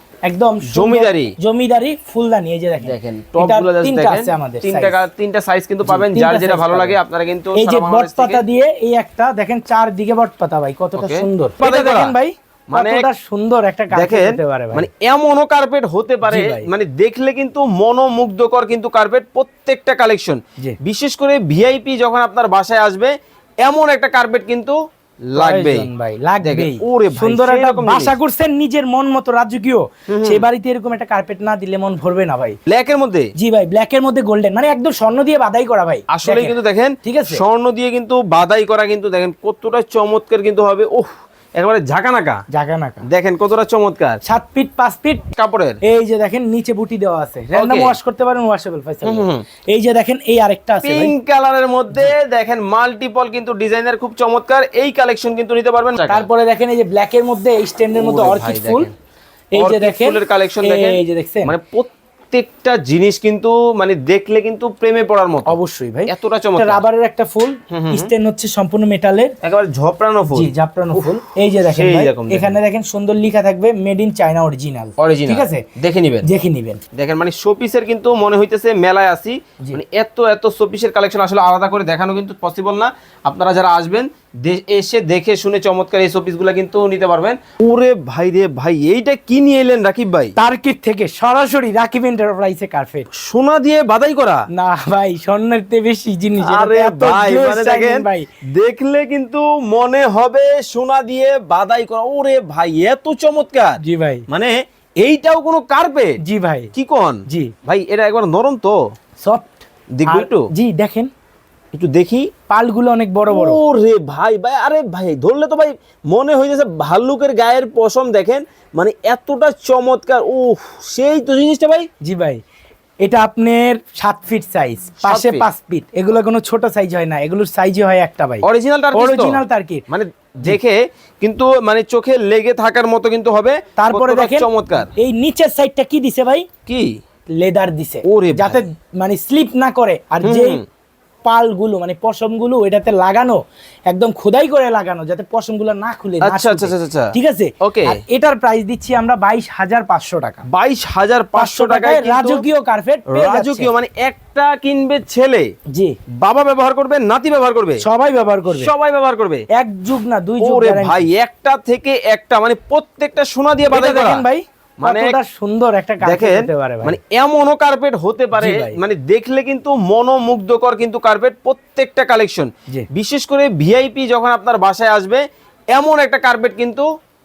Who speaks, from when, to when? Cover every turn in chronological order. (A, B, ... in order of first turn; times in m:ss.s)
0:00.3-0:05.0 A
0:00.7-0:01.3 B
0:02.8-0:08.4 B
0:05.8-0:07.0 A
0:07.6-0:14.9 A
0:11.0-0:12.2 B
0:12.7-0:13.1 B
0:13.9-0:24.8 B
0:16.3-0:16.7 A
0:25.3-0:25.9 B
0:25.4-0:32.6 A
0:26.4-0:28.2 B
0:30.1-0:30.4 B
0:32.7-0:33.3 B
0:33.4-0:37.4 A
0:36.1-0:42.4 B
0:42.5-0:43.0 A
0:43.1-0:44.2 B
0:44.2-0:45.3 A
0:45.3-0:45.8 B
0:45.8-0:51.1 A
0:47.6-0:48.0 B
0:49.0-0:49.4 B
0:50.8-0:56.3 B
0:56.1-0:58.9 A
0:58.0-0:58.9 B
0:59.5-1:01.5 A
0:59.6-1:05.5 B
1:05.5-1:09.4 A
1:06.1-1:06.8 B
1:07.7-1:08.1 B
1:09.4-1:11.2 B
1:10.4-1:15.6 A
1:11.7-1:12.6 B
1:15.0-1:16.3 B
1:16.2-1:16.8 A
1:16.9-1:30.3 B
1:30.4-1:33.1 A
1:33.1-1:34.4 B
1:34.5-1:38.3 A
1:36.4-1:46.2 B
1:43.8-1:44.3 A
1:46.2-1:46.7 A
1:46.7-1:48.8 B
1:47.3-1:47.5 A
1:49.2-1:51.1 A
1:50.0-1:50.4 B
1:51.7-1:52.3 B
1:52.5-1:53.6 A
1:53.3-2:01.9 B
2:02.0-2:02.4 A
2:03.0-2:09.8 A
2:05.0-2:05.4 B
2:08.4-2:14.9 B
2:13.8-2:16.5 A
2:16.7-2:16.9 B
2:17.4-2:20.6 A
2:18.1-2:18.6 B
2:20.2-2:20.6 B
2:21.2-2:30.4 A
2:26.2-2:28.0 B
2:30.5-2:32.4 B
2:31.4-2:33.7 A
2:33.1-2:35.4 B
2:36.2-2:37.8 B
2:37.8-2:38.7 A
2:38.5-2:39.4 B
2:39.5-2:41.1 A
2:40.4-2:44.2 B
2:43.7-2:47.0 A
2:44.8-2:45.2 B
2:46.0-2:56.9 B
2:48.4-2:48.8 A